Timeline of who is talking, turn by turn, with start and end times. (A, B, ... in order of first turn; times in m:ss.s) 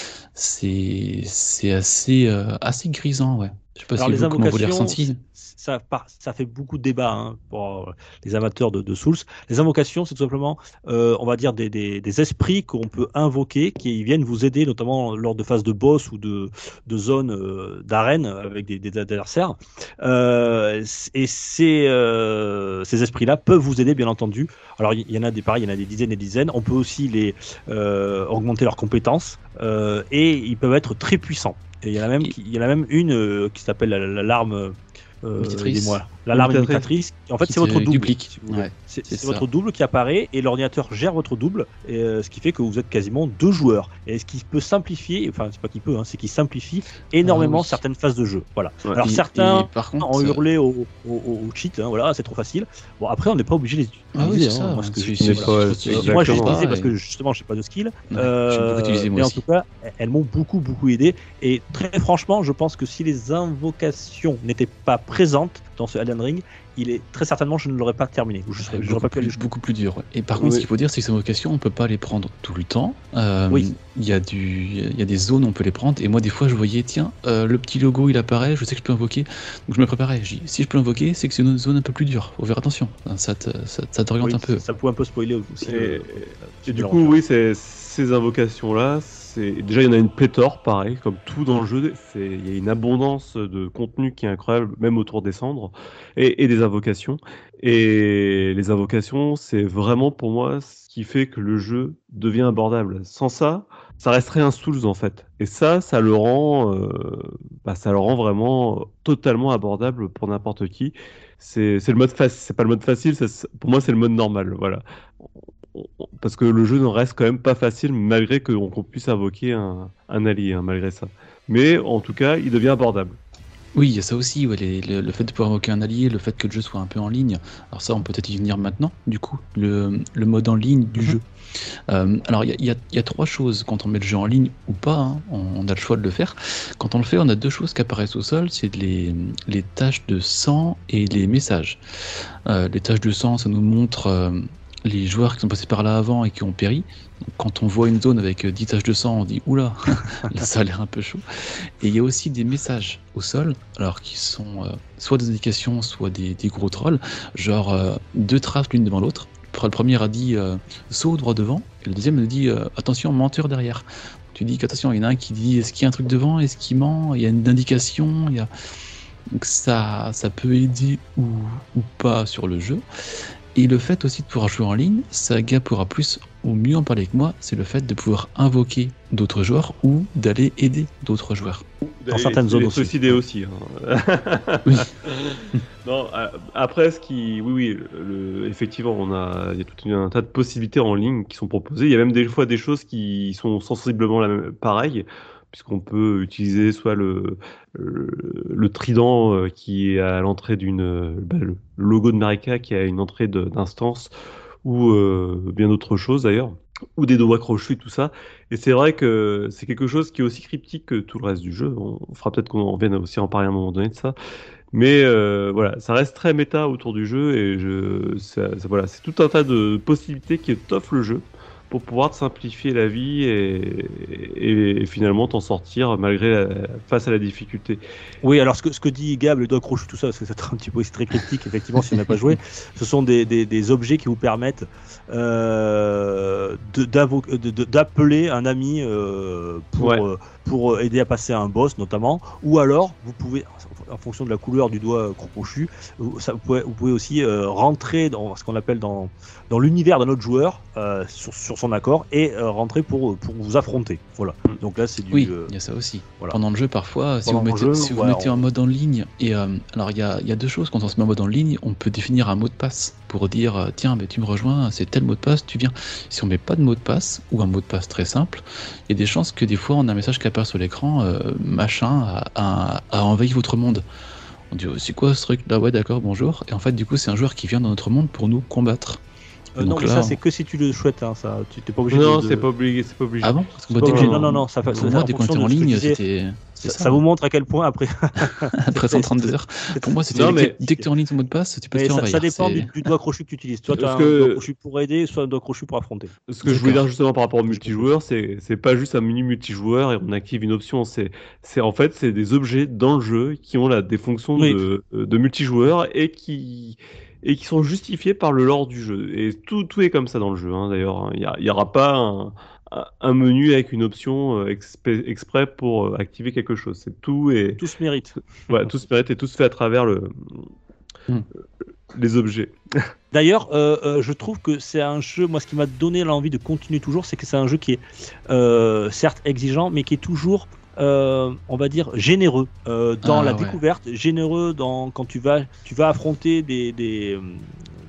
0:00.3-0:05.2 A
0:04.0-1:09.4 B
0:35.4-0:36.0 A
0:36.5-0:36.8 C
0:37.4-0:39.4 A
0:47.2-0:47.8 A
0:49.0-0:50.4 A
0:54.2-0:56.9 A
0:55.2-0:56.6 C
0:58.1-0:59.4 A
1:08.6-1:24.6 A
1:10.4-1:10.6 C
1:24.2-1:27.2 B
1:25.6-2:03.2 C
2:03.8-2:11.2 A
2:11.9-2:48.5 A
2:49.3-2:52.8 A
2:53.6-3:01.6 A
3:01.8-3:24.1 C
3:02.1-3:03.2 B
3:24.6-3:34.2 C
3:34.7-3:47.8 C
3:48.2-4:15.5 B
3:59.8-4:00.0 C
4:15.1-4:33.8 A
4:17.2-4:18.4 B
4:34.5-4:39.0 A
4:39.6-4:42.5 B
4:39.6-4:40.2 A
4:41.9-4:44.9 C
4:43.2-4:47.0 A
4:43.8-4:46.0 B
4:46.6-4:50.9 B
4:48.6-4:52.7 A
4:50.1-4:50.6 C
4:51.7-4:56.8 B
4:53.8-4:54.4 C
4:56.3-5:17.6 C
4:56.4-4:56.8 A
4:57.5-4:57.9 B
5:17.6-5:18.5 B
5:18.5-5:20.5 C
5:21.9-5:22.9 C
5:23.1-5:37.5 B
5:33.0-5:33.6 A